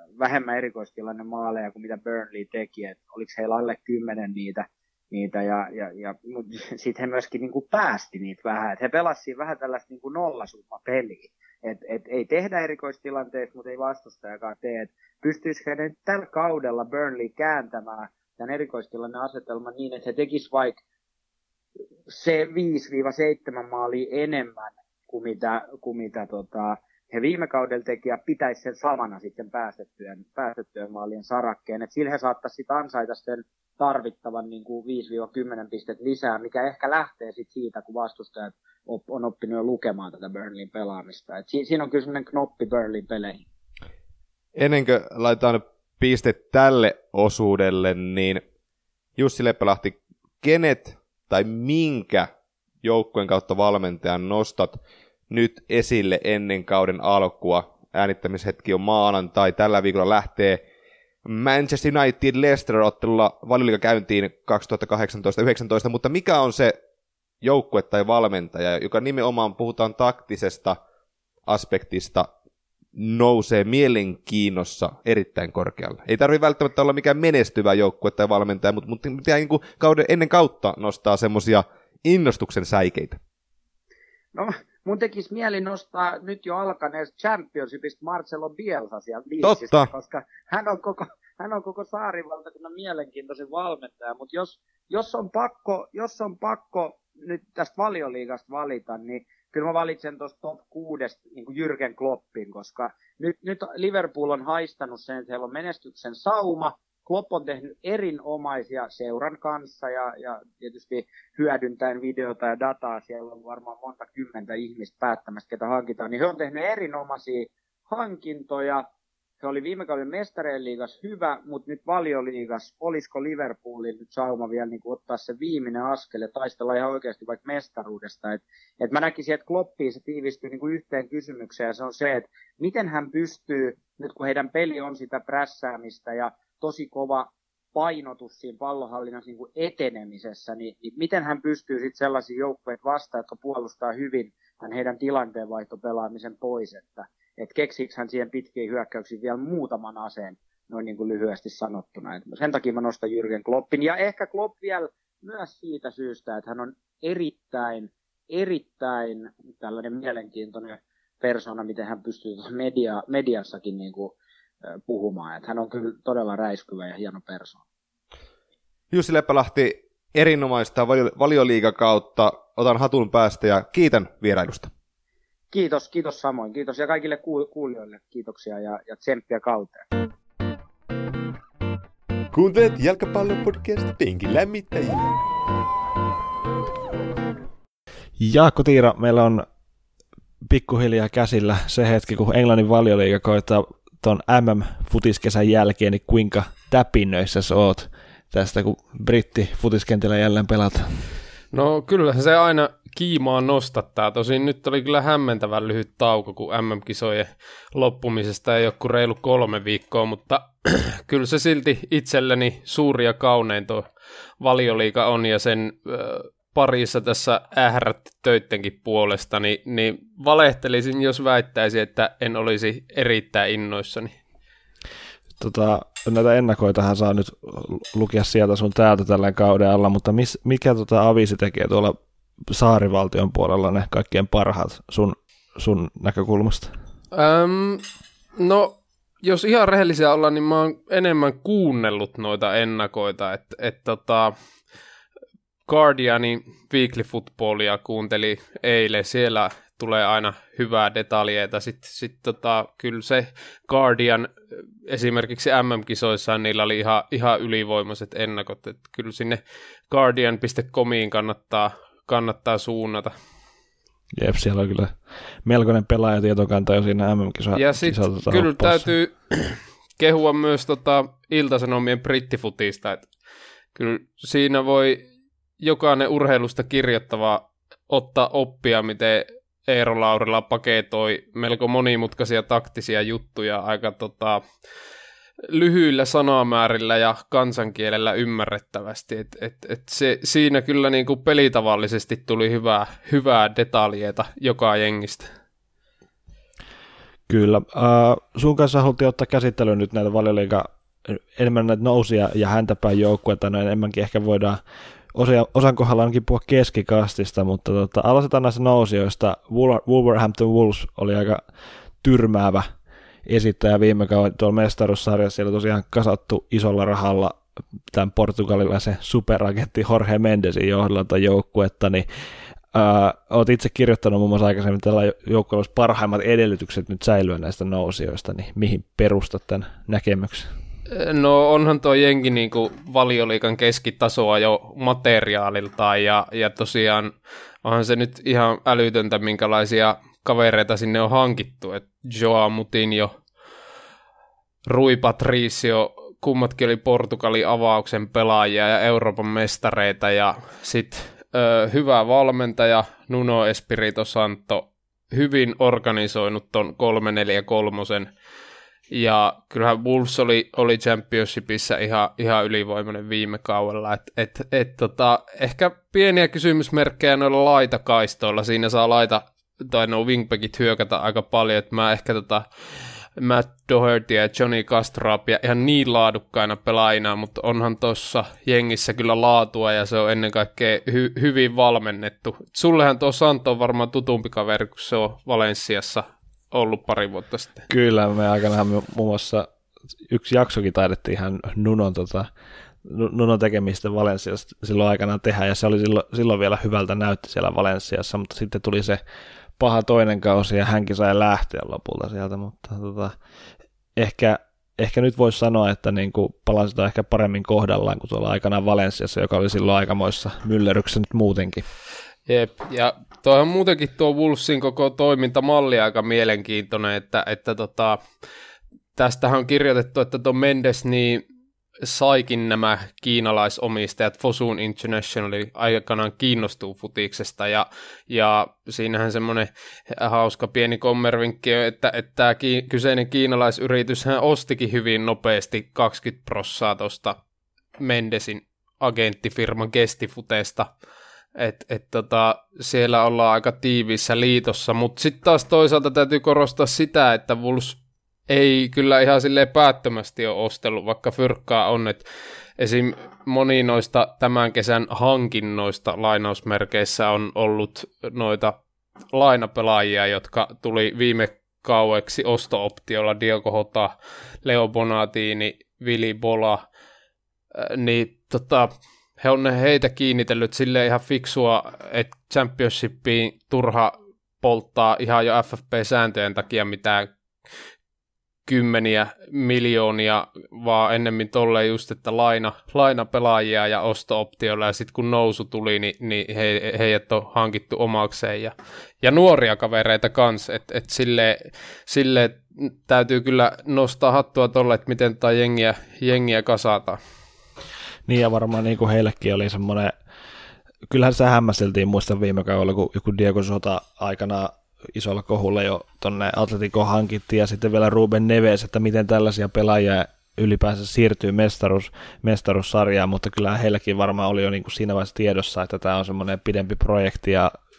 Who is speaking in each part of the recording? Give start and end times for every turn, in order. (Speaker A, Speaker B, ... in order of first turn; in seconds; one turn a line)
Speaker A: 0.2-20.8
Speaker A: 22.1-43.4
Speaker B: 44.5-48.4
Speaker B: 49.2-52.3
Speaker B: 52.8-60.6
Speaker B: 61.2-66.8
Speaker B: 67.4-70.8
Speaker B: 71.5-72.3
Speaker B: 73.0-83.2
Speaker A: 84.3-118.8
Speaker B: 89.4-89.9
Speaker A: 119.4-167.6
Speaker B: 168.9-174.7
Speaker A: 175.5-179.9
Speaker C: 182.3-185.1
Speaker D: 188.2-189.4
Speaker D: 190.4-201.0
Speaker E: 201.5-213.8
Speaker E: 214.4-224.1
Speaker D: 225.4-231.9
Speaker D: 232.5-236.7
Speaker E: 237.1-237.8
Speaker E: 238.4-244.3
Speaker E: 245.7-254.3
Speaker E: 254.9-263.1
Speaker D: 264.1-268.9
Speaker E: 267.5-273.1
Speaker E: 273.7-275.1
Speaker E: 275.6-284.4
Speaker E: 285.5-295.3
Speaker D: 297.3-304.6
Speaker D: 305.1-311.4
Speaker D: 312.0-312.7
Speaker D: 313.2-322.1
Speaker D: 322.7-330.5
Speaker E: 330.9-343.1
Speaker E: 344.6-358.1
Speaker E: 358.9-372.5
Speaker E: 373.2-387.6
Speaker D: 387.7-389.5
Speaker D: 390.1-392.3
Speaker D: 392.8-399.0
Speaker D: 399.6-403.1
Speaker D: 403.9-411.6
Speaker E: 412.3-418.0
Speaker E: 418.9-421.2
Speaker E: 421.8-437.2
Speaker E: 437.8-440.7
Speaker E: 441.4-452.0
Speaker E: 452.6-458.6
Speaker E: 459.1-466.6
Speaker E: 467.5-477.1
Speaker E: 478.4-497.0
Speaker D: 498.1-499.9
Speaker D: 500.9-517.5